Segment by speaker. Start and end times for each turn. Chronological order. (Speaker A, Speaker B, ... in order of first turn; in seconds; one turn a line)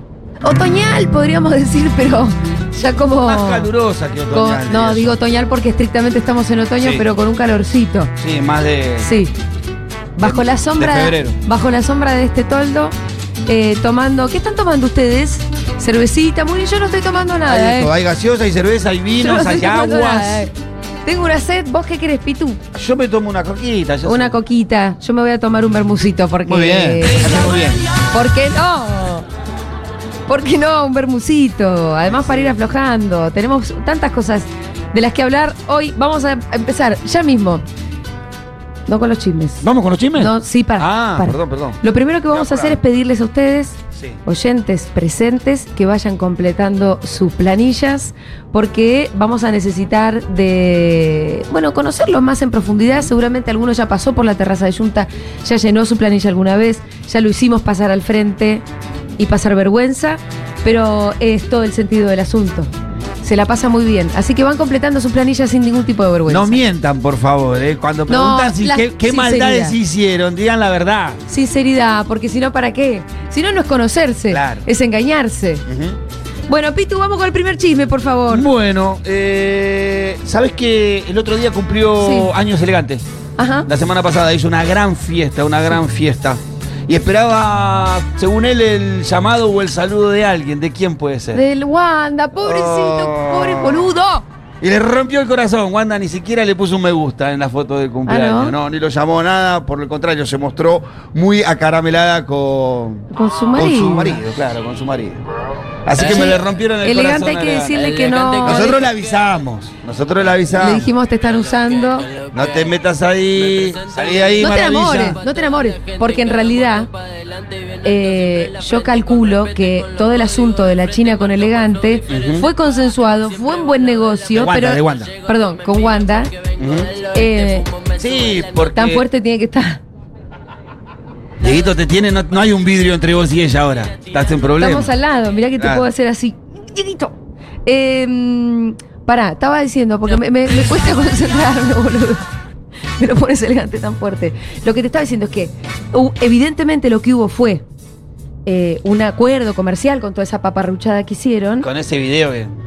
Speaker A: 0.4-3.7
Speaker B: 3.2-5.2
Speaker A: 4.3-8.1
Speaker B: 6.8-7.1
Speaker B: 8.2-9.1
Speaker A: 9.0-9.3
Speaker A: 10.2-12.9
Speaker B: 10.2-11.4
Speaker A: 13.5-17.9
Speaker B: 17.4-20.4
Speaker A: 19.2-20.5
Speaker A: 21.1-22.6
Speaker B: 22.8-24.4
Speaker A: 24.0-27.3
Speaker B: 26.5-27.8
Speaker A: 28.1-29.3
Speaker A: 30.3-37.6
Speaker B: 32.1-32.6
Speaker A: 38.9-39.6
Speaker B: 39.6-41.8
Speaker A: 40.2-58.6
Speaker B: 42.3-42.8
Speaker A: 59.2-62.7
Speaker A: 63.2-66.6
Speaker B: 66.3-71.2
Speaker A: 68.1-69.8
Speaker A: 71.3-75.6
Speaker B: 74.3-74.7
Speaker B: 75.7-76.0
Speaker A: 76.5-78.5
Speaker B: 78.3-83.1
Speaker A: 82.0-82.3
Speaker A: 83.4-83.7
Speaker B: 83.7-91.4
Speaker A: 91.3-94.2
Speaker B: 92.4-94.0
Speaker B: 94.6-105.2
Speaker A: 98.1-98.5
Speaker A: 103.1-104.2
Speaker B: 105.8-110.9
Speaker A: 106.0-108.9
Speaker A: 110.6-112.1
Speaker B: 112.2-115.2
Speaker A: 114.4-116.9
Speaker A: 117.8-126.3
Speaker B: 122.1-122.5
Speaker B: 124.3-125.2
Speaker B: 126.5-127.1
Speaker A: 127.1-127.8
Speaker B: 127.9-129.0
Speaker A: 128.8-129.8
Speaker B: 131.4-134.9
Speaker A: 134.6-142.3
Speaker B: 135.6-135.9
Speaker A: 143.0-147.6
Speaker A: 148.4-151.7
Speaker B: 151.6-152.6